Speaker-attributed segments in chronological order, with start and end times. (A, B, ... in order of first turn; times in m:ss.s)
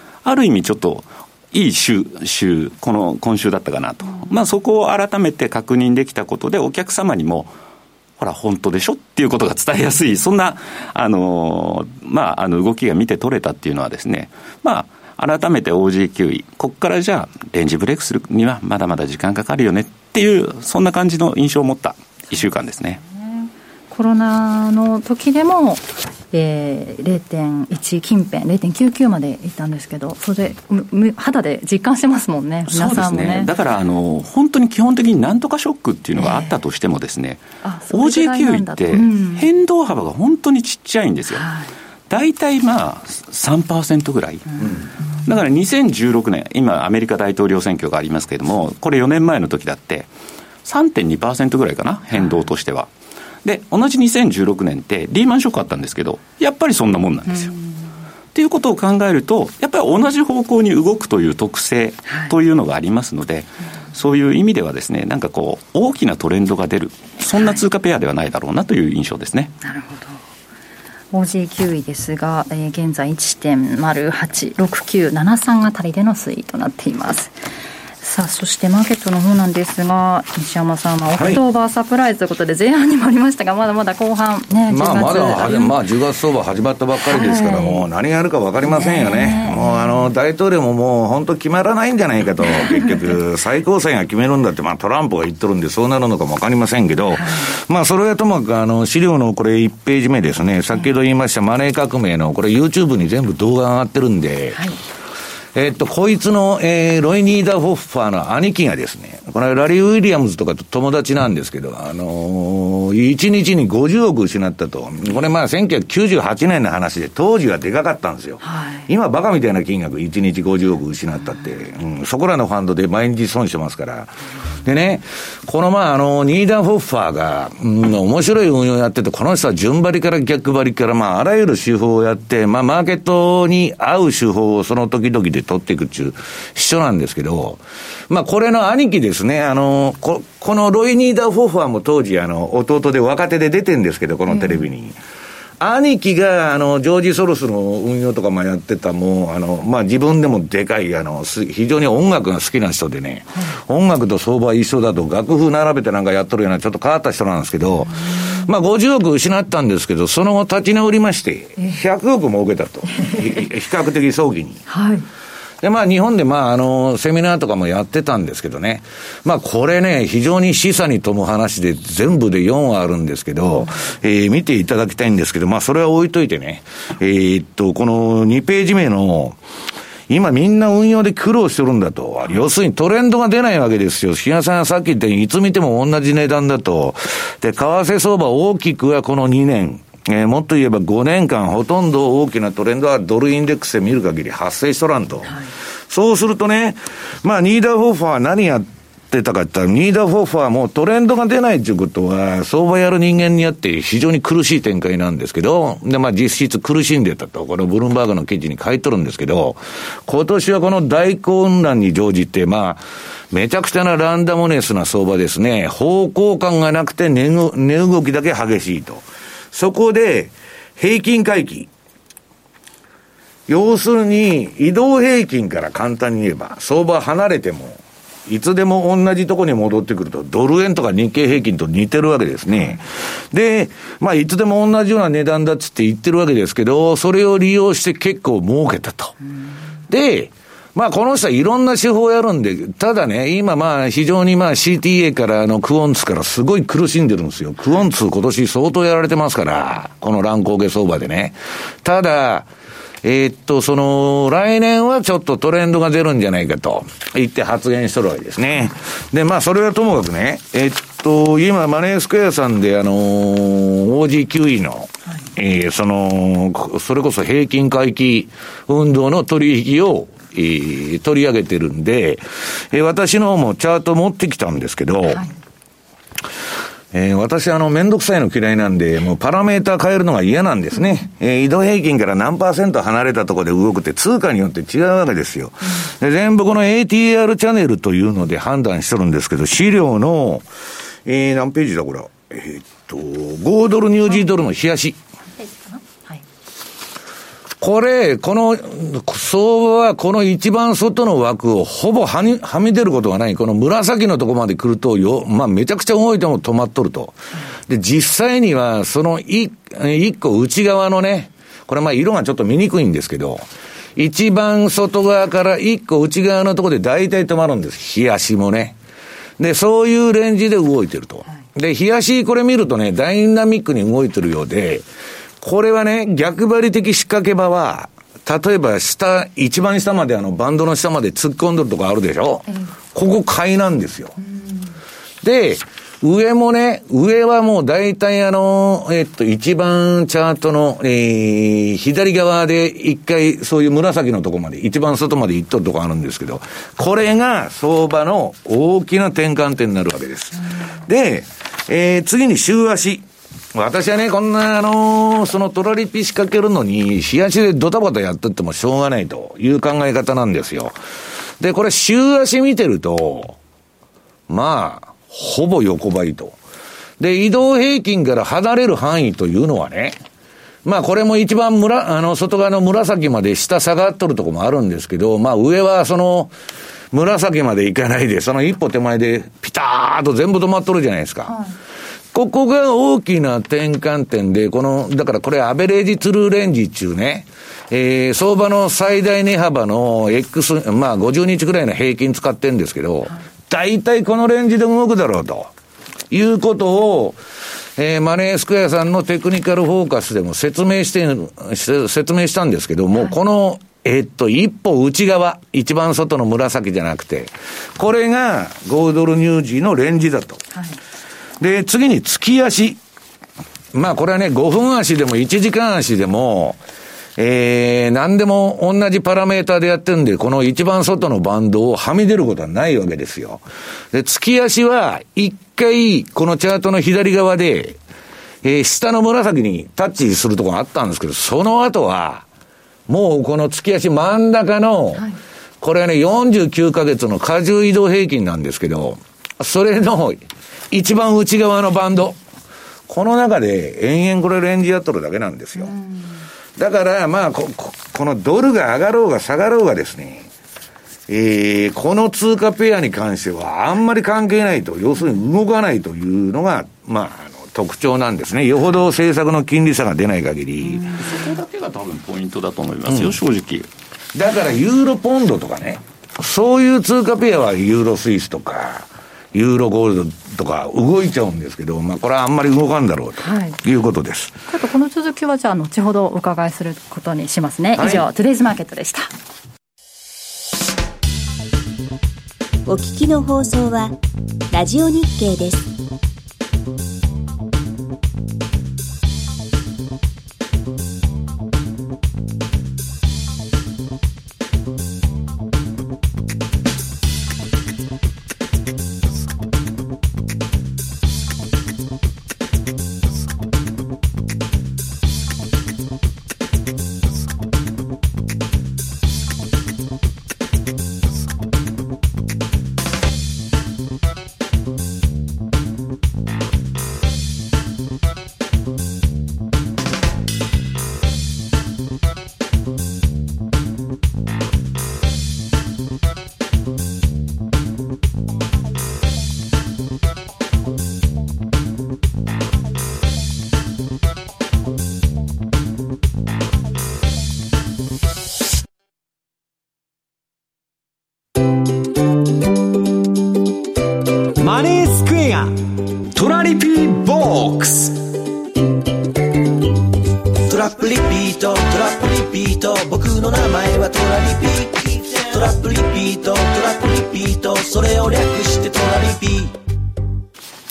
0:00.2-0:07.5 A
0:08.2-0:23.0 A
0:23.0-0:33.5 B
0:32.7-0:41.5 A
0:36.2-0:36.6 B
0:37.6-0:39.5 B
0:41.4-0:41.7 B
0:42.1-0:50.1 A
0:50.6-0:52.9 A
0:53.4-0:57.5 A
0:58.3-1:09.5 A
1:09.6-1:10.2 B
1:11.1-1:17.4 B
1:18.0-1:25.8 B
1:21.2-1:21.4 C
1:24.7-1:44.7 C
1:27.1-1:27.8 B
1:28.6-1:30.1 B
1:37.2-1:37.5 B
1:45.5-2:25.0 C
1:58.4-1:58.8 B
2:24.3-2:24.7 B
2:25.6-2:44.6 C
2:42.9-2:43.2 B
2:44.7-2:45.1 B
2:45.6-2:59.4 C
3:00.1-3:41.7 C
3:43.5-3:59.2 C
3:59.9-4:12.5 C
4:13.0-4:35.2 C
4:36.9-4:50.4 C
4:51.0-4:55.0 C
4:55.4-4:56.2 B
4:57.6-5:07.2 C
5:07.7-5:13.4 C
5:14.0-5:18.8 C
5:19.4-5:24.9 C
5:25.4-5:34.2 C
5:34.2-5:34.7 B
5:35.2-6:00.8 C
6:01.4-6:03.4 C
6:04.3-6:06.4 C
6:07.0-6:10.0 C
6:10.6-6:16.3 C
6:16.9-6:21.4 C
6:21.3-6:21.6 B
6:22.1-6:35.5 C
6:36.1-6:37.2 C
6:37.8-6:50.4 C
6:51.4-6:52.8 C
6:53.7-6:56.6 C
6:57.2-7:07.8 C
7:08.4-7:12.3 C
7:12.9-7:15.1 C
7:15.6-7:22.2 C
7:22.9-7:25.7 C
7:26.6-7:30.3 C
7:31.1-7:41.0 C
7:40.9-7:43.7 A
7:42.9-7:43.2 C
7:44.1-7:54.4 C
7:53.2-7:53.6 B
7:54.5-7:59.1 B
7:57.8-7:58.0 C
8:02.7-8:03.9 D
8:04.5-8:05.7 D
9:04.4-9:05.5 E
9:06.1-9:08.0 E
9:10.5-9:19.6 E